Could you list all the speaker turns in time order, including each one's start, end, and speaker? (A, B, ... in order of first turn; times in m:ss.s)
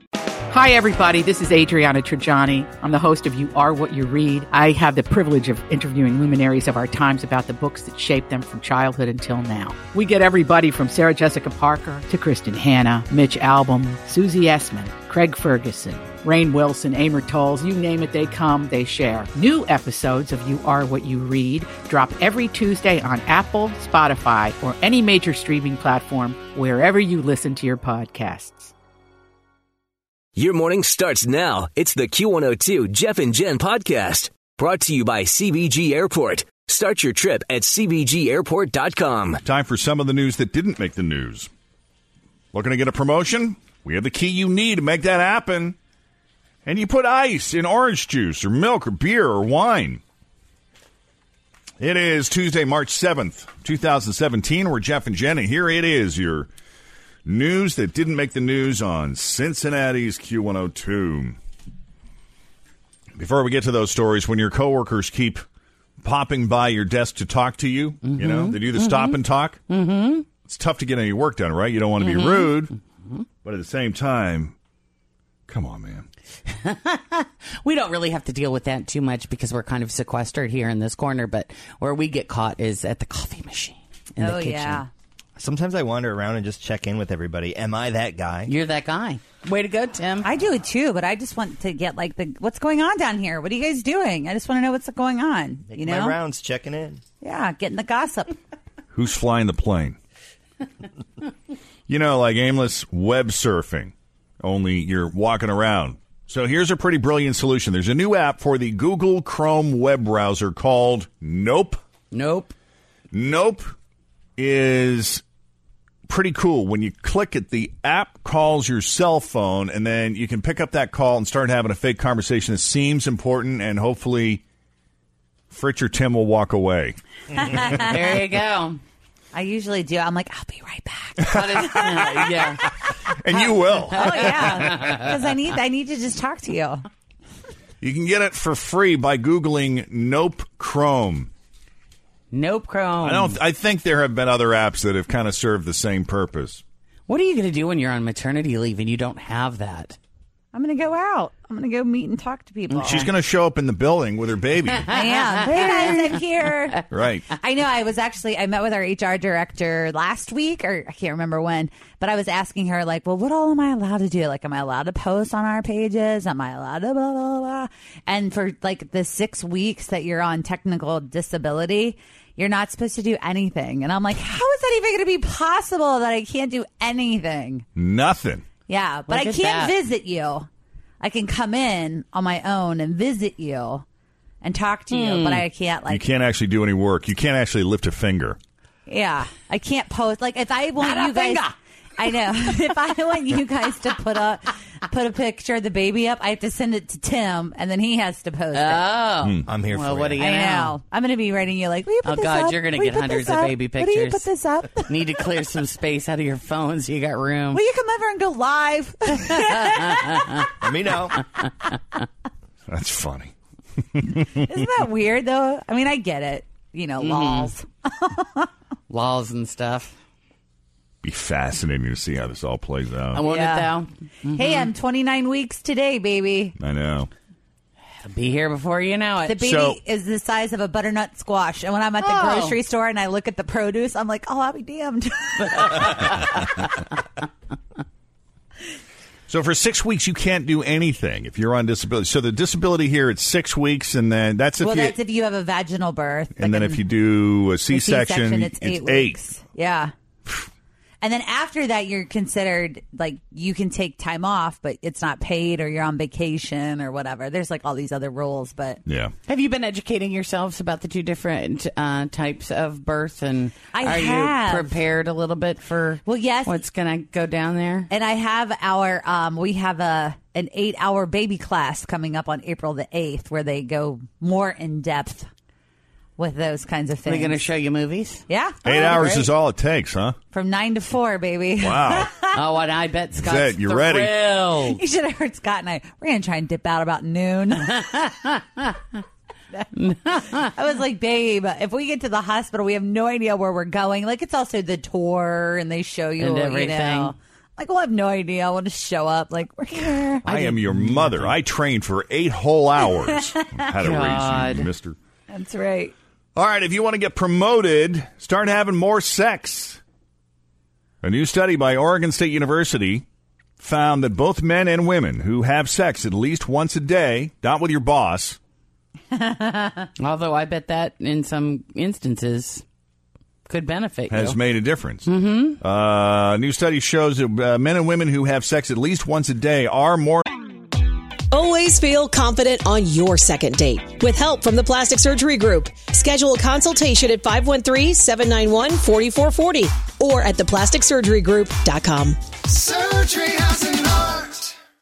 0:00.5-0:28.7 A
0:30.4-0:39.4 B
0:39.4-0:41.5 C
0:42.5-0:45.8 C
0:46.6-0:50.0 C
0:51.8-0:56.5 C
0:57.2-1:01.4 C
1:03.2-1:05.4 C
1:06.0-1:09.6 C
1:08.0-1:10.2 D
1:10.4-1:12.7 C
1:12.0-1:12.5 D
1:13.4-1:14.5 C
1:15.5-1:16.1 C
1:16.6-1:24.8 D
1:24.2-1:24.9 E
1:25.4-1:28.5 F
1:28.4-1:30.3 D
1:30.2-1:36.2 E
1:35.7-1:37.0 F
1:37.2-1:38.4 E
1:38.9-1:40.0 C
1:41.9-1:51.8 C
1:52.1-1:52.5 D
1:53.1-1:53.7 C
1:54.4-1:55.2 C
1:56.1-2:04.4 C
2:05.5-2:07.0 C
2:07.7-2:08.8 D
2:09.3-2:12.0 E
2:11.2-2:12.1 C
2:11.3-2:12.6 D
2:13.2-2:14.8 C
2:13.9-2:16.8 E
2:14.0-2:14.9 D
2:17.8-2:21.3 C
2:22.3-2:23.4 D
2:23.0-2:26.6 C
2:27.1-2:30.0 D
2:30.5-2:33.1 E
2:32.7-2:33.0 D
2:32.8-2:34.9 C
2:34.9-2:36.8 E
2:35.1-2:36.2 D
2:36.9-2:37.3 C
2:37.4-2:57.6 E
2:57.8-2:58.4 C
2:58.7-3:00.5 E
2:59.1-2:59.7 D
3:01.0-3:03.8 E
3:04.4-3:06.0 E
3:04.9-3:05.4 D
3:05.9-3:08.4 C
3:08.9-3:18.8 E
3:10.8-3:11.4 D
3:18.5-3:20.8 D
3:19.5-3:20.2 F
3:20.2-3:25.0 E
3:22.0-3:27.6 D
3:27.5-3:30.4 E
3:30.6-3:31.2 F
3:32.7-3:33.3 C
3:34.2-3:38.5 E
3:37.0-3:37.5 D
3:38.9-3:39.9 D
3:41.0-3:43.2 C
3:43.1-3:44.7 D
3:43.2-3:43.7 E
3:44.3-3:46.6 E
3:46.6-3:47.1 C
3:48.0-3:49.4 D
3:49.2-3:56.3 E
3:49.4-3:49.8 C
3:52.0-3:52.6 D
3:55.6-3:56.2 D
3:59.3-4:05.0 C
4:04.6-4:06.8 E
4:06.4-4:09.2 C
4:07.7-4:09.9 E
4:11.0-4:18.8 E
4:18.8-4:19.1 C
4:19.2-4:27.9 D
4:23.7-4:24.7 E
4:26.0-4:26.6 E
4:27.9-4:35.3 E
4:36.2-4:37.4 E
4:37.0-4:38.2 D
4:38.3-4:39.2 E
4:38.6-4:40.2 C
4:38.8-4:39.2 D
4:40.3-4:42.4 E
4:41.6-4:42.1 C
4:42.3-4:44.8 D
4:43.2-4:44.2 C
4:44.7-4:47.9 E
4:47.8-4:48.6 D
4:49.7-4:50.4 D
4:50.5-5:00.2 E
4:56.2-4:57.1 D
5:00.2-5:01.3 D
5:00.2-5:05.0 C
5:03.8-5:04.7 D
5:05.3-5:05.9 E
5:06.4-5:09.8 C
5:11.0-5:13.0 C
5:13.6-5:18.4 C
5:20.0-5:22.6 D
5:23.4-5:24.4 D
5:24.1-5:30.2 C
5:25.0-5:25.6 D
5:31.3-5:42.2 G